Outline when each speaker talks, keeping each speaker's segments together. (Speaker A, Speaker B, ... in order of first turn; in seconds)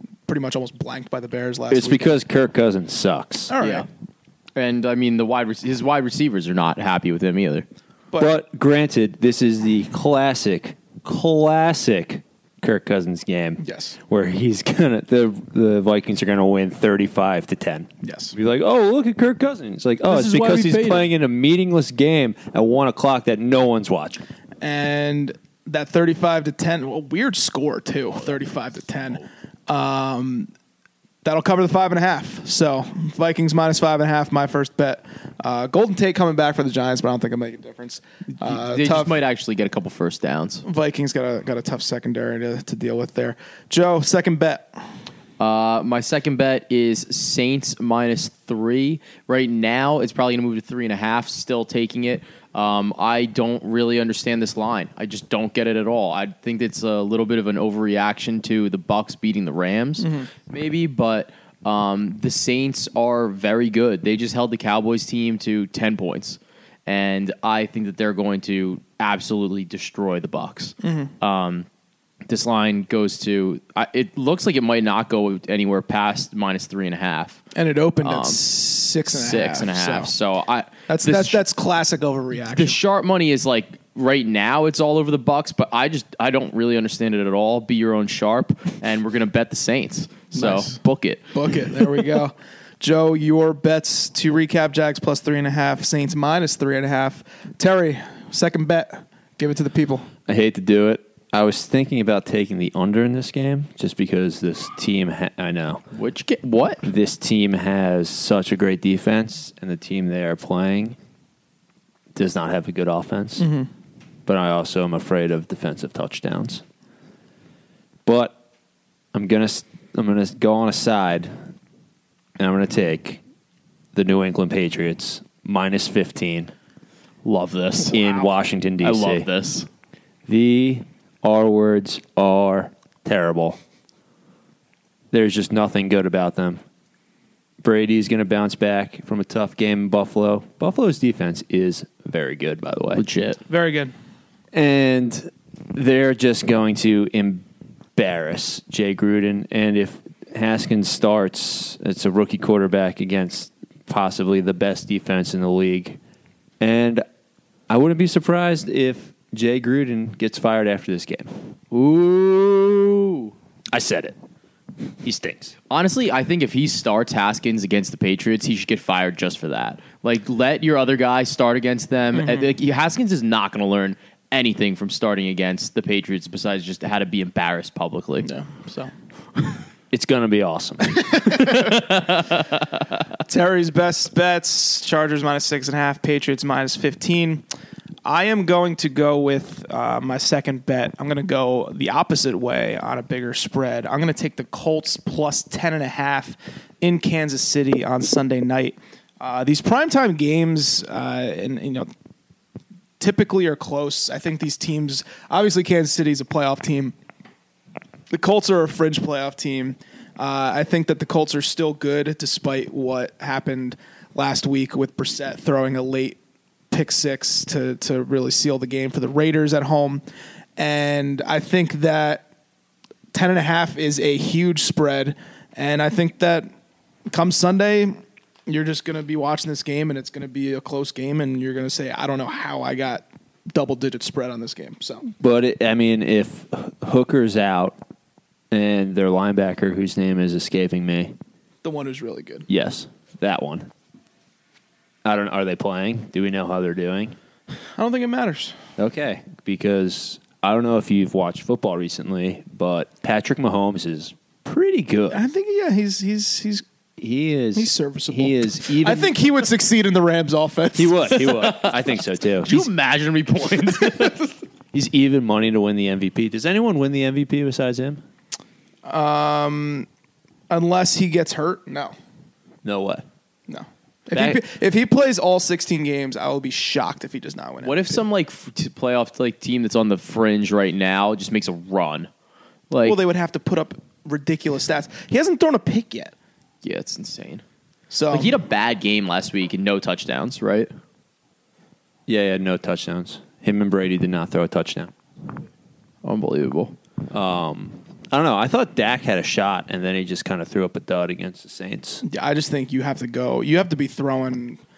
Speaker A: 0.3-2.2, 3.5-3.9, 13.6-14.0, 18.0-18.3, 20.5-20.9, 24.6-30.5, 31.2-39.2, 40.6-44.8, 60.0-60.3, 70.8-71.1, 77.5-80.1, 80.9-82.8, 90.3-90.8, 91.3-100.1, 113.4-113.7, 143.5-143.9, 172.1-172.5, 178.2-178.9, 181.0-181.7, 183.2-187.4, 188.0-201.9, 203.0-206.9, 208.1-216.2, 216.7-220.0, 220.6-222.2, 223.1-226.5, 227.1-235.1, 241.6-242.5, 247.7-248.6, 255.1-256.6, 257.5-261.5, 268.8-269.9, 270.5-271.9, 273.5-278.0, 282.8-286.1, 287.9-288.4, 302.0-304.6
Speaker B: 1.7-3.5, 8.2-24.2, 100.3-105.8, 106.8-111.0, 112.1-113.5, 114.2-116.6, 118.0-118.3, 119.1-121.3, 122.4-123.2, 123.9-126.5, 127.8-129.3, 130.3-133.6, 135.1-136.6, 137.6-143.0, 144.5-156.0, 156.6-157.0, 157.7-161.3, 163.7-164.2, 165.0-165.5, 179.9-181.0, 235.2-237.8, 238.5-241.2, 242.5-243.7, 245.0-247.1, 248.8-255.2, 257.0-259.1, 260.8-262.7, 264.7-268.0, 272.6-273.1, 274.1-274.4, 292.1-294.9, 297.1-302.0
Speaker C: 3.6-3.9, 4.5-7.7, 20.1-21.0, 38.4-40.6, 45.4-71.7, 72.3-77.4, 78.0-78.4, 79.1-81.4, 82.5-91.4, 105.9-106.8, 127.2-129.7, 142.9-143.4, 161.7-163.3, 165.7-178.3, 181.3-182.4, 261.2-261.8, 262.4-264.3, 277.6-282.1, 282.7-283.0, 286.6-287.4, 288.1-290.7, 296.0-296.8